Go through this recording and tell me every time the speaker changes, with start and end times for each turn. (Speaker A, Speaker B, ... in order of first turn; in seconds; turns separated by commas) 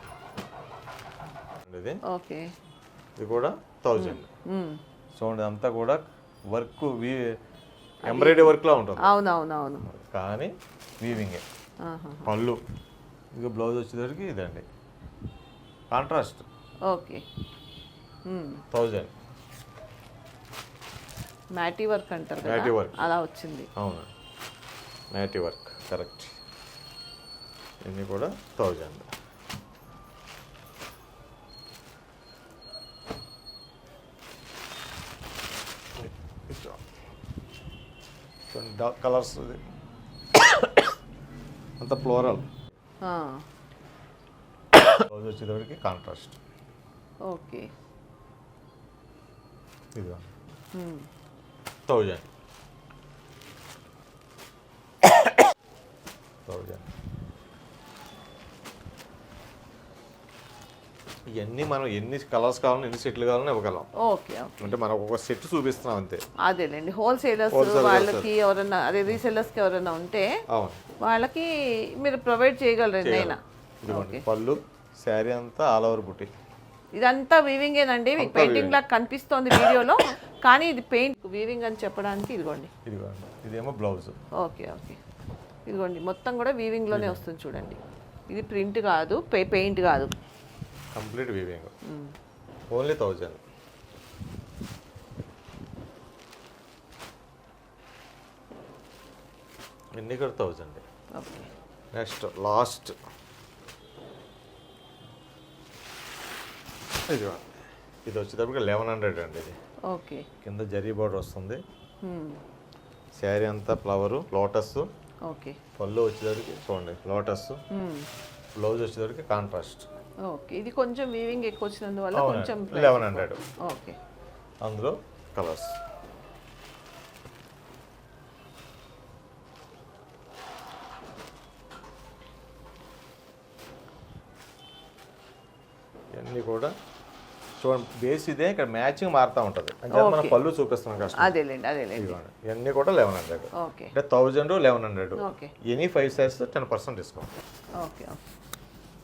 Speaker A: 1.6-2.0, Speaker B: 2.0-2.5, Speaker A: 3.2-4.3, Speaker B: 4.0-4.8, Speaker A: 5.1-7.3, Speaker A: 8.0-9.1, Speaker B: 8.0-9.9, Speaker A: 9.9-11.4, Speaker B: 11.8-12.3, Speaker A: 12.2-12.6, Speaker A: 13.3-14.7, Speaker A: 15.9-16.4, Speaker B: 16.9-17.2, Speaker B: 18.2-18.6, Speaker A: 18.7-19.1, Speaker B: 21.5-23.7, Speaker A: 22.4-23.1, Speaker A: 23.8-24.1, Speaker A: 25.1-26.3, Speaker A: 27.8-29.1, Speaker A: 36.0-36.8, Speaker A: 38.5-39.6, Speaker A: 40.3-40.9, Speaker A: 41.8-42.5, Speaker B: 43.0-43.4, Speaker A: 45.0-46.3, Speaker B: 47.2-47.7, Speaker A: 49.9-50.2, Speaker B: 50.7-51.1, Speaker A: 51.9-52.3, Speaker A: 56.5-56.9, Speaker A: 61.3-63.9, Speaker B: 64.0-64.8, Speaker A: 64.6-66.2, Speaker B: 66.4-70.3, Speaker A: 67.5-68.3, Speaker A: 70.5-70.8, Speaker B: 71.0-74.2, Speaker A: 73.0-76.3, Speaker B: 77.0-82.7, Speaker A: 78.2-78.8, Speaker A: 82.8-84.2, Speaker B: 84.4-85.0, Speaker B: 85.7-87.8, Speaker A: 86.9-87.2, Speaker B: 88.3-90.1, Speaker A: 90.9-91.7, Speaker B: 91.8-92.1, Speaker A: 92.7-93.4, Speaker A: 100.0-100.8, Speaker B: 101.2-101.5, Speaker A: 101.9-102.9, Speaker A: 107.1-107.5, Speaker A: 108.0-109.5, Speaker B: 109.9-110.3, Speaker A: 110.4-111.6, Speaker B: 112.0-112.4, Speaker A: 113.2-114.9, Speaker B: 115.2-115.6, Speaker A: 115.8-117.6, Speaker B: 117.7-118.1, Speaker A: 118.5-119.9, Speaker B: 120.2-124.0, Speaker A: 122.1-123.4, Speaker A: 124.6-125.8, Speaker A: 136.1-136.7, Speaker A: 137.6-141.3, Speaker B: 139.9-140.4, Speaker B: 141.2-142.2, Speaker A: 142.0-147.3, Speaker B: 143.5-143.9, Speaker B: 145.2-145.5, Speaker B: 147.8-148.2